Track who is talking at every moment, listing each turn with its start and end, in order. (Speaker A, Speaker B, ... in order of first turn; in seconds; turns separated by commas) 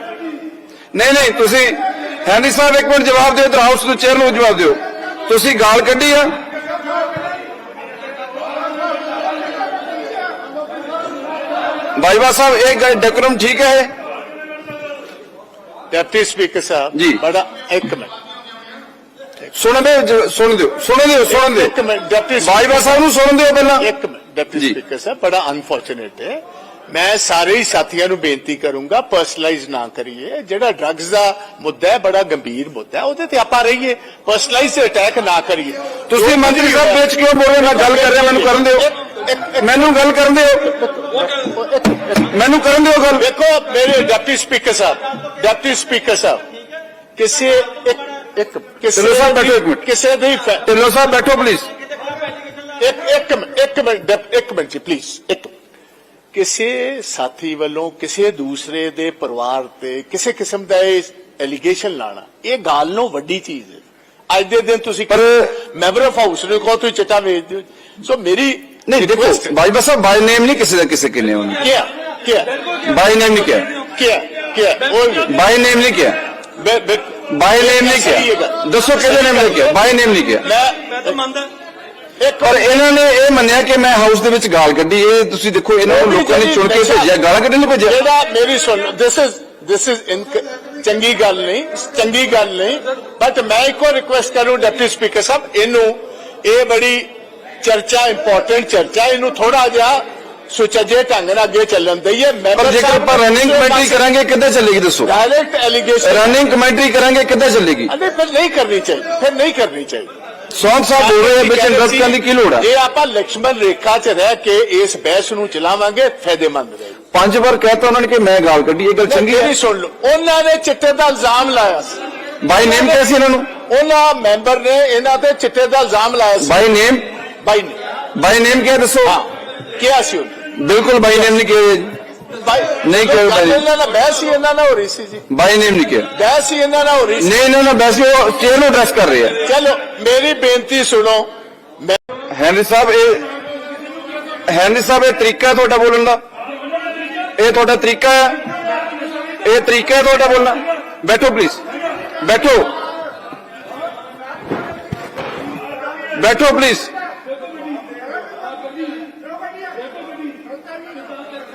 Speaker A: 0.9-6.3, Speaker A: 12.0-13.9, Speaker B: 15.9-18.1, Speaker A: 16.9-17.2, Speaker A: 19.5-21.7, Speaker B: 21.3-23.1, Speaker A: 22.4-23.9, Speaker B: 23.8-39.9, Speaker A: 36.1-38.9, Speaker A: 39.6-40.7, Speaker B: 40.6-42.3, Speaker A: 42.3-43.3, Speaker B: 43.2-46.4, Speaker B: 47.2-50.7, Speaker A: 49.0-49.9, Speaker A: 50.6-51.7, Speaker B: 52.8-55.5, Speaker B: 56.3-69.6, Speaker A: 65.1-65.5, Speaker A: 68.9-71.6, Speaker B: 71.6-72.5, Speaker A: 72.8-73.7, Speaker B: 73.9-75.3, Speaker A: 75.2-76.2, Speaker B: 76.6-79.9, Speaker A: 77.3-80.5, Speaker B: 80.4-81.3, Speaker B: 82.2-82.8, Speaker A: 82.4-88.0, Speaker B: 85.8-87.2, Speaker B: 87.8-97.1, Speaker B: 97.6-104.0, Speaker A: 102.5-105.1, Speaker B: 105.0-106.3, Speaker A: 106.0-107.9, Speaker B: 107.9-110.1, Speaker A: 110.5-112.7, Speaker B: 111.0-117.0, Speaker A: 117.1-119.5, Speaker B: 119.0-122.0, Speaker A: 122.4-123.5, Speaker B: 122.6-123.0, Speaker B: 123.6-126.6, Speaker A: 126.4-127.1, Speaker B: 127.4-127.8, Speaker A: 128.2-129.2, Speaker B: 129.0-130.5, Speaker A: 130.6-132.0, Speaker B: 131.1-131.4, Speaker B: 132.4-135.3, Speaker A: 132.8-133.7, Speaker A: 135.3-136.1, Speaker B: 136.1-137.3, Speaker A: 137.2-139.4, Speaker B: 139.4-142.0, Speaker A: 142.3-143.3, Speaker A: 144.5-146.2, Speaker A: 147.4-148.5, Speaker A: 149.4-151.6, Speaker A: 152.2-152.8, Speaker A: 156.1-156.9